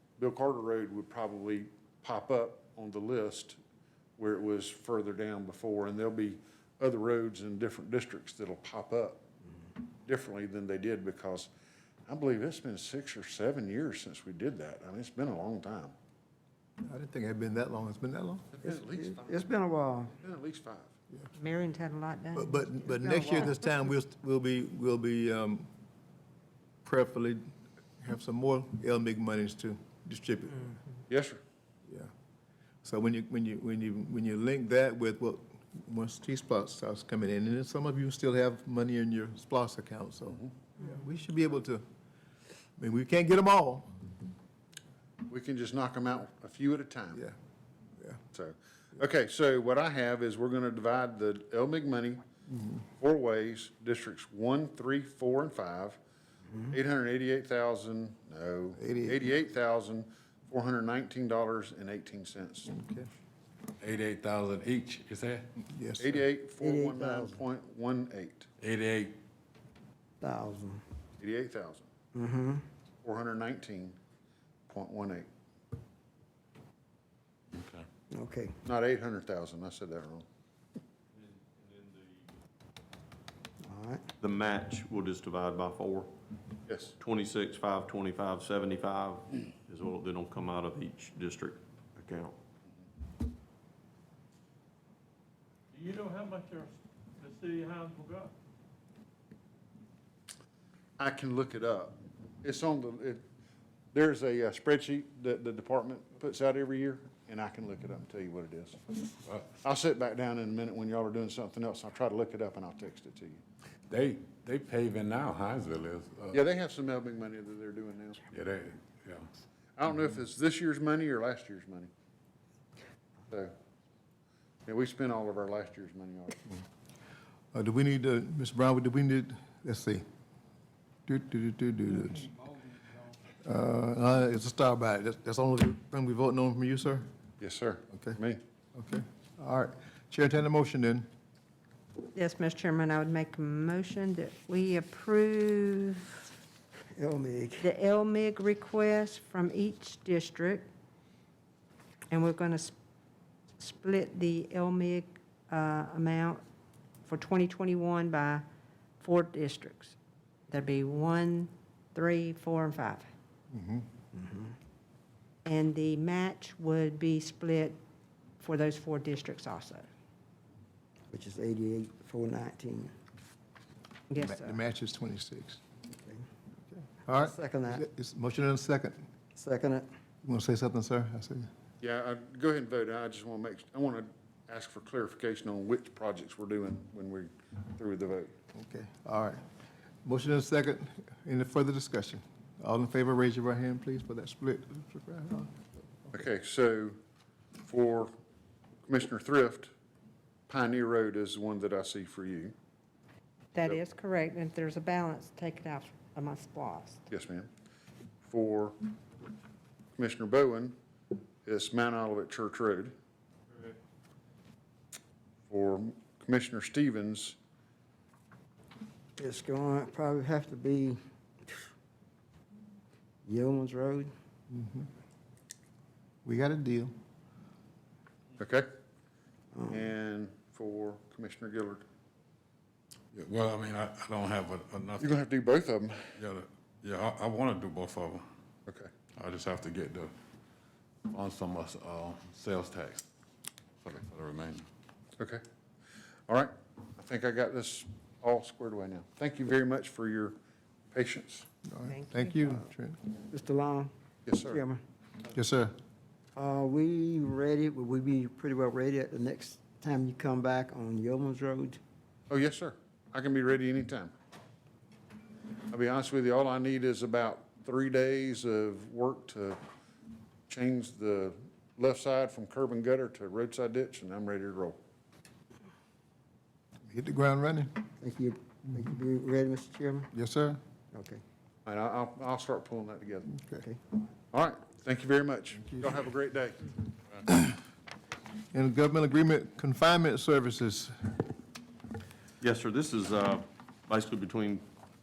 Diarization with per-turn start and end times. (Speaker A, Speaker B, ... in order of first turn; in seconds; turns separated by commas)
Speaker A: 0.2-3.6, Speaker A: 4.2-9.2, Speaker A: 10.1-11.5, Speaker A: 12.1-15.9, Speaker B: 16.8-18.4, Speaker A: 18.5-19.3, Speaker C: 18.6-20.1, Speaker A: 20.2-20.9, Speaker D: 21.3-22.9, Speaker B: 22.4-25.7, Speaker B: 26.8-30.7, Speaker A: 31.1-31.4, Speaker B: 32.8-41.8, Speaker B: 42.8-43.9, Speaker A: 45.3-47.2, Speaker A: 48.3-52.2, Speaker A: 53.0-56.0, Speaker A: 56.7-62.7, Speaker B: 58.8-59.2, Speaker B: 62.7-63.1, Speaker E: 63.8-65.5, Speaker B: 65.6-66.1, Speaker A: 66.0-68.5, Speaker C: 66.6-67.4, Speaker E: 68.6-69.2, Speaker C: 70.2-70.8, Speaker A: 71.2-71.9, Speaker C: 72.1-72.6, Speaker A: 73.0-74.0, Speaker A: 74.7-75.3, Speaker E: 77.5-77.8, Speaker C: 78.1-78.6, Speaker A: 78.6-80.2, Speaker F: 81.6-82.0, Speaker C: 83.6-84.0, Speaker F: 84.2-86.1, Speaker A: 86.7-86.9, Speaker F: 87.0-92.3, Speaker G: 95.8-98.3, Speaker A: 101.0-103.2, Speaker A: 103.9-108.8, Speaker A: 109.5-113.4, Speaker E: 113.9-116.4, Speaker A: 116.3-118.3, Speaker E: 118.3-119.3, Speaker A: 119.8-121.9, Speaker A: 124.7-126.4, Speaker B: 127.5-130.0, Speaker B: 131.1-132.5, Speaker B: 133.4-137.1, Speaker A: 137.4-138.4, Speaker B: 137.9-138.2, Speaker B: 138.7-141.1, Speaker D: 142.1-146.3, Speaker C: 146.9-147.7, Speaker D: 147.6-150.7, Speaker D: 152.1-152.7, Speaker D: 153.6-156.4, Speaker D: 157.0-158.4, Speaker D: 159.0-159.9, Speaker D: 160.5-163.1, Speaker B: 163.5-163.8, Speaker C: 164.1-164.5, Speaker D: 165.4-167.8, Speaker D: 168.4-169.9, Speaker C: 171.1-172.9, Speaker D: 174.1-174.6, Speaker B: 174.2-175.6, Speaker C: 175.9-176.2, Speaker B: 176.7-179.1, Speaker C: 177.2-177.8, Speaker C: 179.3-179.9, Speaker B: 180.2-181.5, Speaker A: 181.8-188.3, Speaker B: 188.5-189.4, Speaker B: 190.0-195.6, Speaker A: 196.1-197.0, Speaker A: 197.6-198.1, Speaker A: 198.9-199.7, Speaker A: 200.5-202.5, Speaker D: 203.5-207.1, Speaker A: 207.1-207.5, Speaker A: 208.2-208.8, Speaker A: 210.0-210.8, Speaker A: 211.4-212.9, Speaker A: 215.5-217.4, Speaker C: 219.2-221.7, Speaker C: 223.2-224.1, Speaker B: 224.5-224.9, Speaker B: 226.2-226.9, Speaker A: 228.4-228.7, Speaker C: 229.5-229.8, Speaker A: 229.7-231.8, Speaker E: 233.1-235.2, Speaker A: 235.0-236.1, Speaker E: 236.2-238.2, Speaker E: 239.2-240.1, Speaker E: 241.1-243.0, Speaker E: 243.8-244.6, Speaker A: 246.3-250.4, Speaker A: 250.9-251.5, Speaker B: 251.6-253.0, Speaker D: 251.9-252.6, Speaker C: 253.2-253.9, Speaker A: 254.3-254.6, Speaker C: 254.5-254.8, Speaker B: 255.3-255.7, Speaker C: 256.4-261.8, Speaker A: 262.3-264.1, Speaker A: 265.7-269.6, Speaker A: 270.5-274.8, Speaker B: 276.9-277.9, Speaker C: 278.0-280.1, Speaker B: 280.1-280.6, Speaker C: 280.9-281.2, Speaker A: 281.6-283.3, Speaker B: 283.3-283.6, Speaker A: 284.3-286.7, Speaker B: 287.3-287.5, Speaker B: 288.5-291.1, Speaker F: 292.4-294.6